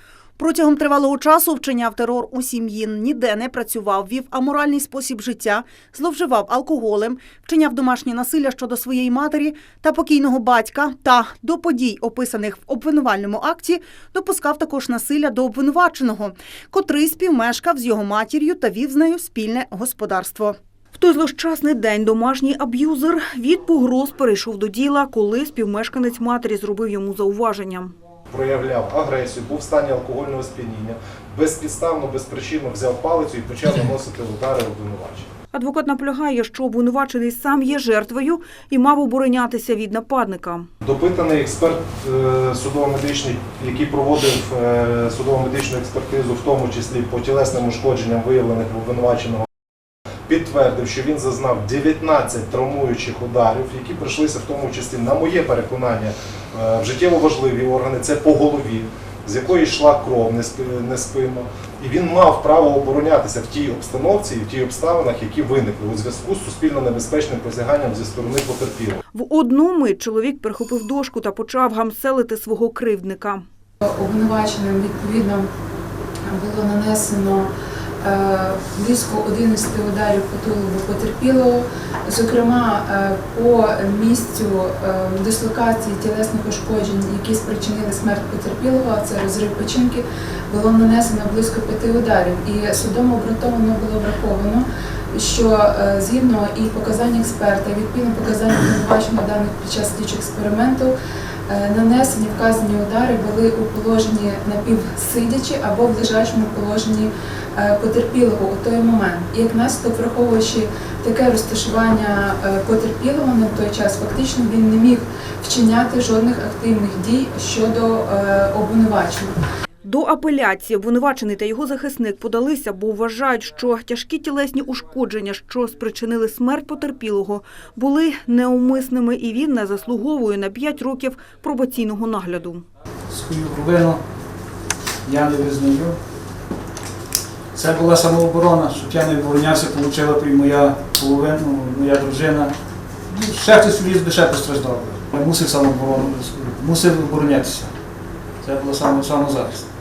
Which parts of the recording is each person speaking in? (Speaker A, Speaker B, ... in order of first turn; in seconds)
Speaker A: 0.4-20.6
Speaker B: 20.9-27.9, 35.5-40.7, 69.1-73.4, 119.8-132.6
Speaker C: 28.3-35.3, 40.8-49.5, 50.3-69.0
Speaker D: 73.8-75.5, 76.2-77.5, 78.0-100.9, 101.5-119.4
Speaker E: 133.1-134.0, 135.0-136.0, 137.5-142.5, 143.1-147.7, 148.4-149.7